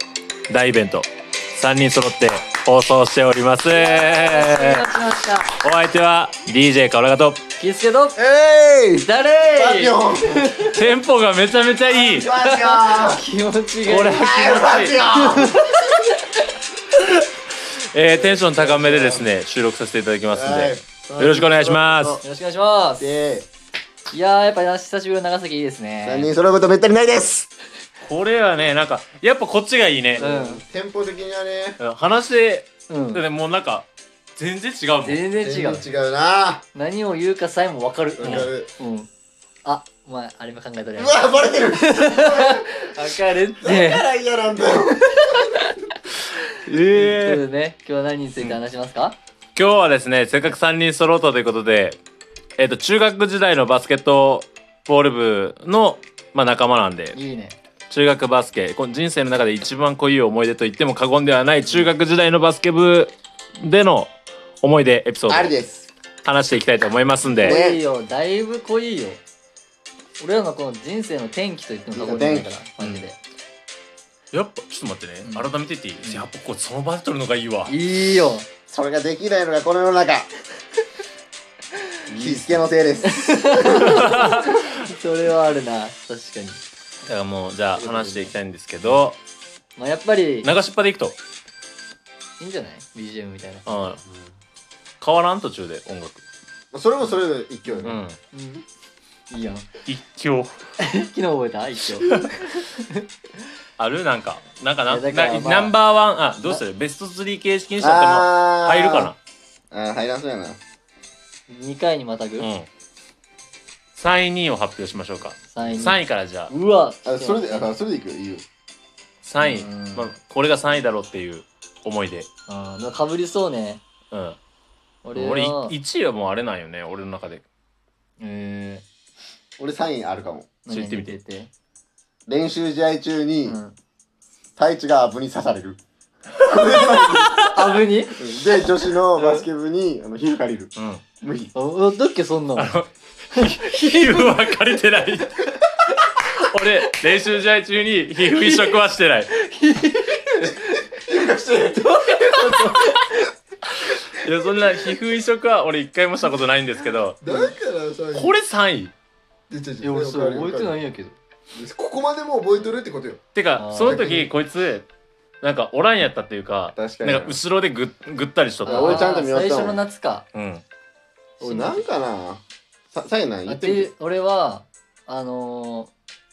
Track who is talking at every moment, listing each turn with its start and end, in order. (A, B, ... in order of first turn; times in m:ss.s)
0:00.5-0:04.9 A
0:03.7-0:05.6 B
0:05.5-0:07.4 A
0:07.6-0:08.2 B
0:08.2-0:10.5 C
0:09.0-0:10.9 B
0:10.7-0:12.3 A
0:11.9-0:13.2 C
0:12.2-0:16.2 B
0:13.9-0:15.1 A
0:14.1-0:15.7 C
0:17.0-0:22.2 A
0:18.1-0:19.3 C
0:20.3-0:22.2 C
0:22.2-0:23.1 B
0:23.0-0:23.5 C
0:24.1-0:26.3 B
0:26.0-0:27.5 C
0:28.0-0:30.2 A
0:30.2-0:31.8 C
0:30.2-0:30.6 B
0:31.8-0:35.2 A
0:32.9-0:33.2 B
0:35.0-0:35.9 B
0:35.4-0:36.6 C
0:36.7-0:39.1 B
0:38.2-0:38.7 C
0:38.2-0:38.5 A
0:39.6-0:44.1 B
0:41.0-0:43.0 C
0:43.6-0:45.4 C
0:44.9-0:45.8 B
0:46.6-0:47.4 A
0:46.8-0:49.2 B
0:49.6-0:52.0 A
0:52.6-0:57.2 A
0:57.1-0:57.6 B
0:57.9-1:05.5 A
1:05.3-1:05.9 C
1:06.2-1:07.6 A
1:07.4-1:07.8 C
1:07.4-1:09.2 B
1:10.2-1:13.2 B
1:11.9-1:12.5 C
1:12.8-1:13.1 A
1:14.3-1:17.7 A
1:15.2-1:15.5 B
1:16.0-1:16.3 B
1:17.7-1:18.5 B
1:18.7-1:20.3 C
1:22.1-1:22.7 A
1:22.1-1:24.1 C
1:23.0-1:26.6 B
1:23.7-1:24.6 A
1:27.0-1:29.2 A
1:27.8-1:28.3 C
1:29.8-1:30.5 B
1:30.4-1:31.2 A
1:32.4-1:34.0 B
1:33.7-1:34.0 A
1:34.0-1:34.3 C
1:35.0-1:36.2 A
1:36.7-1:38.0 C
1:37.0-1:38.6 B
1:37.8-1:38.2 A
1:39.3-1:39.7 B
1:39.9-1:40.6 A
1:40.8-1:43.0 B
1:43.8-1:49.2 A
1:44.9-1:45.8 B
1:47.8-1:49.1 C
1:49.7-1:50.6 C
1:51.5-1:52.5 B
1:52.4-1:52.7 A
1:54.0-1:56.5 A
1:55.5-1:57.7 B
1:55.6-1:56.0 C
1:57.0-1:58.4 C
1:59.2-2:02.3 A
1:59.4-2:00.1 B
2:02.5-2:03.8 B
2:04.1-2:04.4 A
2:05.0-2:05.8 B
2:05.1-2:07.4 A
2:08.2-2:08.8 B
2:09.6-2:10.5 C
2:10.6-2:11.5 B
2:10.7-2:11.2 A
2:12.3-2:13.6 C
2:13.5-2:13.8 B
2:14.6-2:15.8 C
2:16.4-2:17.4 C
2:16.9-2:18.2 B
2:17.1-2:17.5 A
2:18.2-2:21.5 C
2:19.2-2:19.5 B
2:20.8-2:21.0 A
2:21.5-2:22.7 B
2:22.6-2:25.5 A
2:23.4-2:24.8 B
2:26.3-2:29.3 A
2:28.3-2:30.9 B
2:30.3-2:33.0 C
2:31.8-2:33.3 B
2:33.8-2:37.2 A
2:37.2-2:38.4 C
2:37.3-2:37.5 B
2:38.1-2:38.9 A
2:39.5-2:40.8 C
2:39.8-2:41.2 B
2:41.5-2:43.2 C
2:43.4-2:44.9 A
2:43.6-2:44.1 B
2:43.8-2:44.3 C
2:45.4-2:49.0 A
2:46.7-2:47.4 C
2:48.6-2:49.8 C
2:48.6-2:50.3 B
2:50.3-2:50.6 A
2:51.4-2:51.9 B
2:51.4-2:53.9 C
2:53.5-2:55.9 B